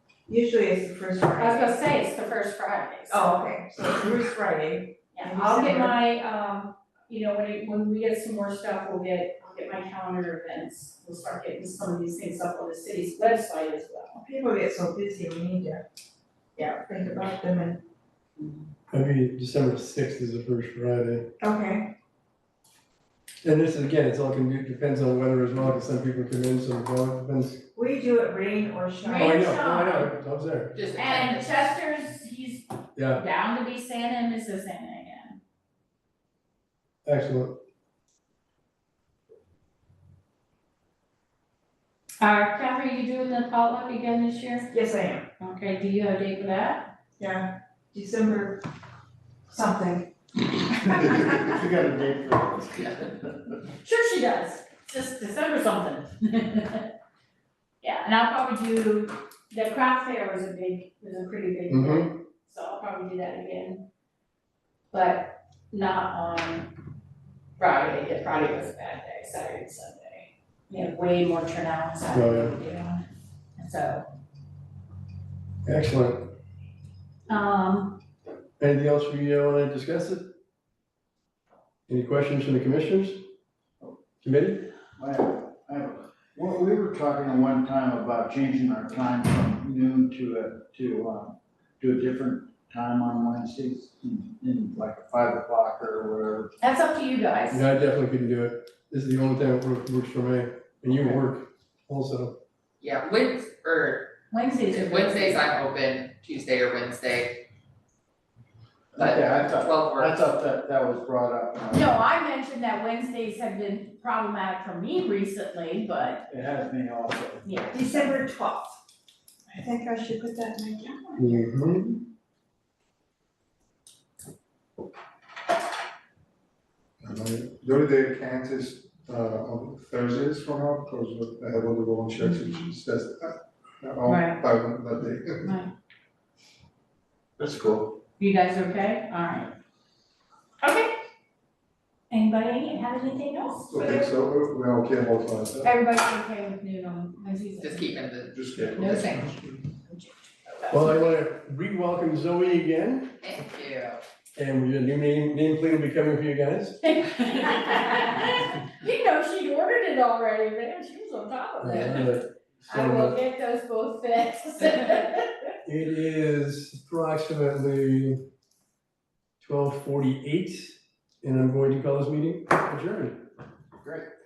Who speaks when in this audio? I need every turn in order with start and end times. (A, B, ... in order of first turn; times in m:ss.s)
0:00.3-0:01.7 A
0:01.4-0:03.4 B
0:03.1-0:06.0 A
0:05.1-0:14.2 B
0:14.2-0:15.8 A
0:16.6-0:17.8 A
0:18.9-0:21.3 C
0:21.4-0:21.9 A
0:23.4-0:27.6 C
0:27.8-0:29.5 A
0:29.0-0:30.1 B
0:29.2-0:30.8 C
0:30.7-0:31.7 D
0:30.9-0:35.4 B
0:33.0-0:33.2 C
0:37.0-0:37.6 C
0:42.2-0:44.7 B
0:44.7-0:45.3 A
0:45.4-0:46.9 B
0:47.2-0:48.6 A
0:49.5-0:50.1 A
0:50.9-0:51.5 A
0:50.9-0:53.6 E
0:53.8-0:56.9 B
0:57.8-1:03.8 B
1:01.7-1:02.1 C
1:04.9-1:06.7 B
1:07.6-1:13.0 B
1:12.1-1:12.5 C
1:13.6-1:14.1 B
1:15.6-1:16.3 C
1:17.3-1:18.0 B
1:18.6-1:20.2 C
1:21.9-1:23.2 C
1:24.2-1:24.7 C
1:25.0-1:36.5 E
1:36.6-1:37.6 B
1:37.5-1:42.4 C
1:42.8-1:44.1 D
1:44.3-1:45.5 B
1:44.7-1:47.4 D
1:48.9-1:52.0 E
1:49.0-1:50.1 D
1:51.7-1:56.2 B
1:56.3-1:57.9 E
1:57.4-1:58.2 B
1:57.7-1:58.8 A
1:59.5-2:01.5 A
2:01.2-2:02.0 C
2:07.0-2:15.5 F
2:12.2-2:12.7 B
2:14.1-2:14.4 B
2:15.4-2:15.7 B
2:17.4-2:17.9 F
2:18.2-2:19.6 B
2:20.6-2:20.9 B
2:22.1-2:24.0 B
2:23.7-2:25.7 F
2:25.6-2:27.9 B
2:27.6-2:29.2 D
2:28.3-2:29.4 F
2:28.8-2:31.0 B
2:30.7-2:33.1 C
2:33.2-2:34.0 D
2:34.4-2:36.8 C
2:36.8-2:45.3 B
2:41.6-2:43.1 C
2:45.6-2:48.2 C
2:49.4-2:53.2 C
2:53.8-2:54.1 E